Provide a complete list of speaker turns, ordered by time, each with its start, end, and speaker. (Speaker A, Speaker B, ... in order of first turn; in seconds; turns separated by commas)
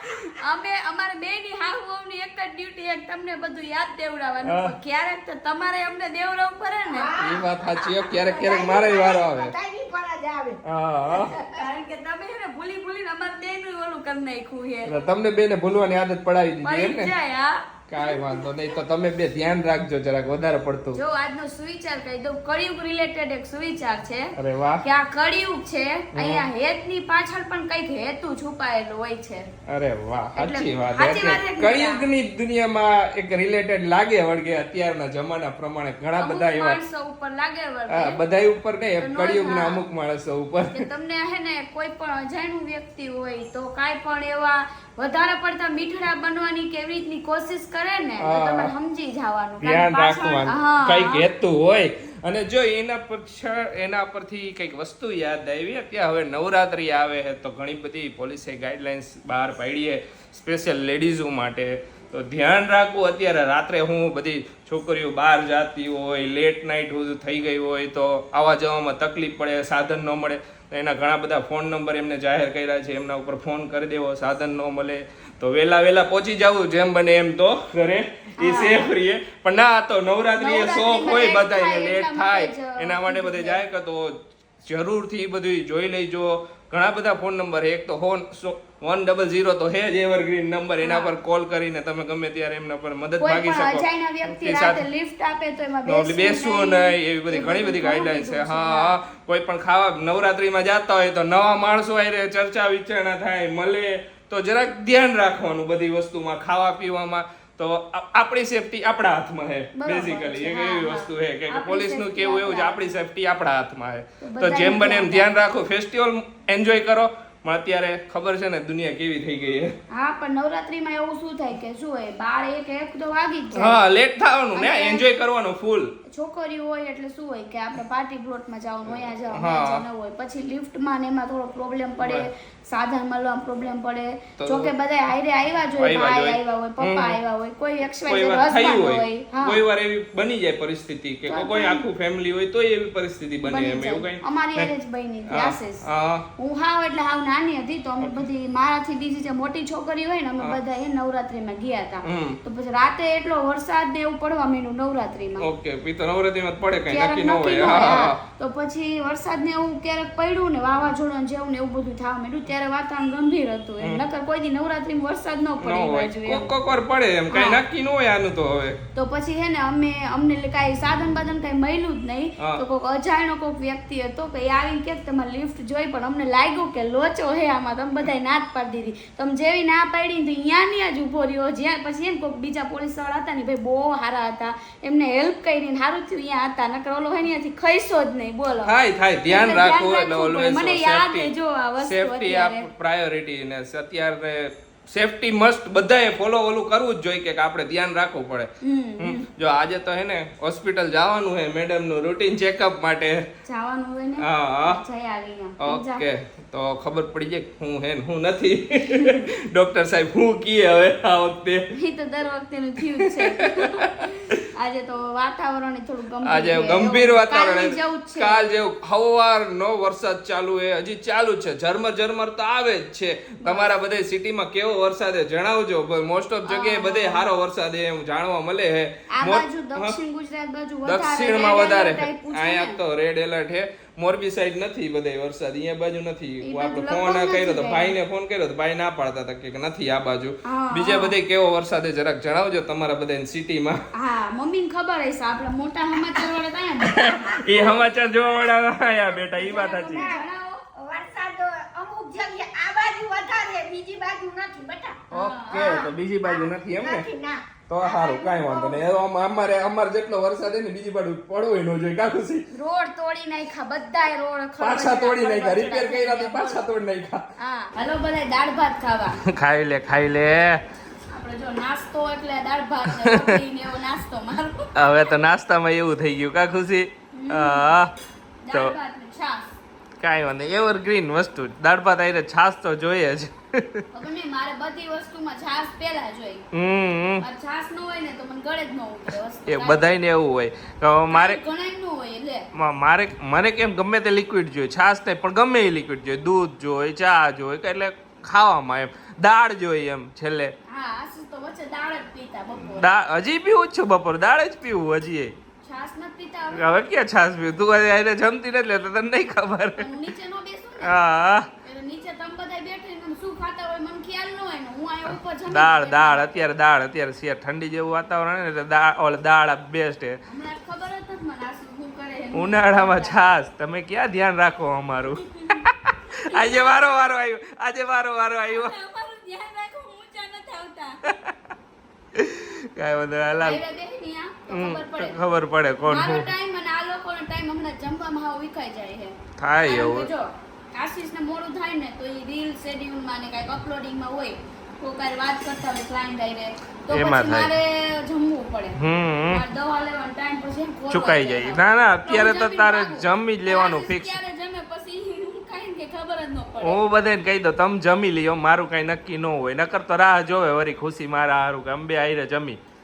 Speaker A: 0.3-7.1, Speaker B: 4.5-4.7, Speaker C: 6.9-7.5, Speaker B: 7.2-9.5, Speaker C: 8.1-10.6, Speaker B: 10.6-11.3, Speaker C: 11.1-11.6, Speaker A: 11.3-14.9, Speaker B: 14.9-17.1, Speaker A: 16.6-18.5, Speaker B: 17.9-21.0, Speaker A: 20.9-29.5, Speaker B: 24.4-24.8, Speaker B: 26.1-26.4, Speaker B: 29.7-36.8, Speaker A: 30.4-32.0, Speaker A: 36.2-38.2, Speaker B: 37.9-40.8, Speaker A: 39.0-39.8, Speaker A: 40.7-51.3, Speaker B: 48.2-48.7, Speaker B: 49.6-94.8, Speaker A: 78.4-78.9, Speaker A: 80.4-83.6, Speaker A: 90.8-91.1, Speaker A: 93.2-99.0, Speaker B: 95.8-119.7, Speaker A: 109.8-112.9, Speaker A: 114.2-115.3, Speaker A: 119.9-123.8, Speaker B: 123.5-125.9, Speaker A: 124.5-125.1, Speaker A: 126.1-139.6, Speaker B: 128.9-129.8, Speaker B: 132.0-132.3, Speaker B: 134.4-134.7, Speaker B: 135.8-137.2, Speaker B: 138.1-144.7, Speaker A: 141.3-141.9, Speaker A: 143.4-145.8, Speaker B: 145.3-146.2, Speaker A: 146.4-155.5, Speaker B: 152.0-152.4, Speaker B: 155.4-158.2, Speaker A: 156.9-166.5, Speaker B: 165.6-168.8, Speaker A: 167.3-167.6, Speaker A: 168.9-188.7, Speaker B: 188.6-203.2, Speaker A: 189.2-192.7, Speaker A: 198.6-199.3, Speaker A: 203.5-206.1, Speaker B: 204.2-204.8, Speaker B: 205.6-211.7, Speaker A: 208.9-209.2, Speaker A: 211.7-218.5, Speaker B: 212.9-214.4, Speaker B: 216.2-230.0, Speaker A: 223.4-223.7, Speaker A: 226.5-227.3, Speaker A: 229.1-232.8, Speaker B: 230.8-243.8, Speaker A: 236.4-238.0, Speaker A: 240.4-241.2, Speaker A: 243.9-247.9, Speaker B: 246.8-250.1, Speaker A: 249.1-250.6, Speaker C: 249.9-255.0, Speaker B: 255.1-257.1, Speaker A: 255.1-255.8, Speaker C: 255.5-258.8, Speaker B: 257.7-262.5, Speaker A: 262.5-266.7, Speaker B: 264.6-267.2, Speaker A: 267.4-269.2, Speaker B: 269.2-270.6, Speaker A: 271.1-274.9, Speaker B: 273.0-273.3, Speaker B: 274.8-277.9, Speaker A: 277.1-277.7, Speaker A: 278.4-279.5, Speaker B: 280.0-283.8, Speaker A: 283.9-286.5, Speaker B: 286.5-287.2, Speaker A: 287.2-290.0, Speaker B: 289.5-291.4, Speaker A: 291.1-292.5, Speaker B: 292.5-300.5, Speaker A: 300.7-302.9, Speaker B: 302.7-305.3, Speaker A: 305.6-306.6, Speaker B: 306.5-309.9, Speaker A: 309.8-311.0, Speaker B: 310.8-311.5, Speaker A: 311.6-316.5, Speaker B: 315.5-320.2, Speaker A: 320.3-323.2, Speaker B: 322.3-328.7, Speaker A: 325.3-327.1, Speaker A: 328.5-331.0, Speaker B: 331.1-331.4, Speaker B: 332.1-333.6, Speaker A: 333.4-335.2, Speaker B: 334.5-336.3, Speaker A: 335.9-348.8, Speaker B: 339.4-340.1, Speaker B: 346.9-347.5, Speaker B: 348.8-349.4, Speaker A: 349.3-356.8, Speaker B: 350.9-354.2, Speaker B: 356.6-362.6